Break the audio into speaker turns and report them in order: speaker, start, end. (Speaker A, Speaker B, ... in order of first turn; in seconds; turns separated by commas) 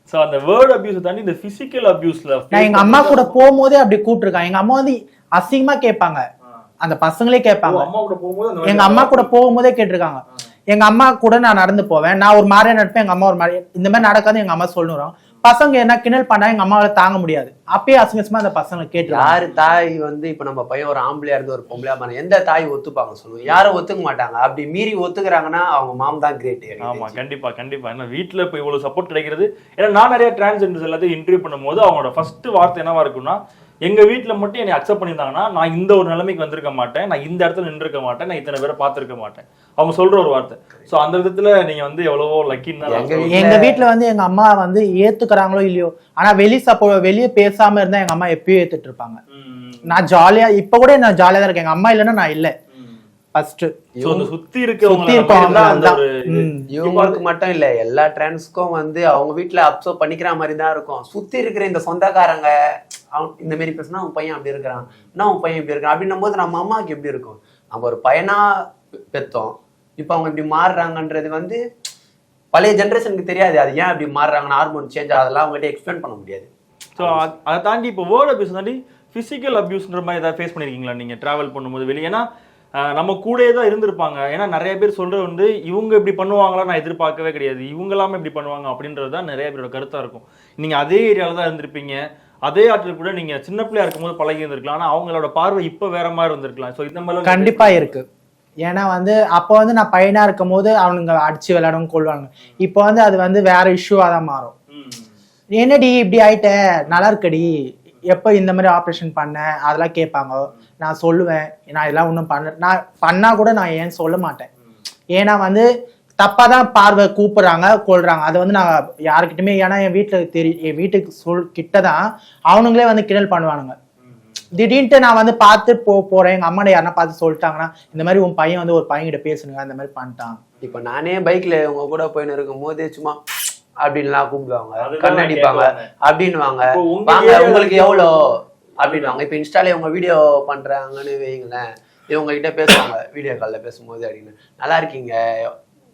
Speaker A: 0.1-3.4, Speaker B: 2.5-6.2, Speaker B: 6.8-7.9, Speaker A: 7.6-9.3, Speaker B: 8.6-19.4, Speaker C: 19.1-27.2, Speaker A: 19.5-19.8, Speaker A: 26.8-43.5, Speaker C: 42.9-43.8, Speaker B: 43.3-49.2, Speaker A: 49.3-50.0, Speaker B: 49.9-52.5, Speaker A: 52.7-53.0, Speaker B: 53.3-53.7, Speaker C: 54.0-54.3, Speaker A: 54.0-57.2, Speaker B: 54.8-56.7, Speaker C: 55.2-55.9, Speaker C: 56.7-62.5, Speaker C: 63.1-71.6, Speaker C: 72.5-76.5, Speaker A: 77.0-82.2, Speaker C: 77.0-77.3, Speaker A: 82.8-97.9, Speaker B: 97.2-98.0, Speaker B: 98.6-104.5, Speaker A: 104.7-105.1, Speaker B: 105.5-114.5, Speaker B: 115.2-115.7, Speaker B: 116.2-123.8, Speaker A: 124.0-124.4, Speaker B: 124.5-130.4, Speaker C: 130.6-133.2, Speaker C: 133.8-145.5, Speaker A: 134.8-135.9, Speaker A: 136.6-138.2, Speaker A: 138.8-139.2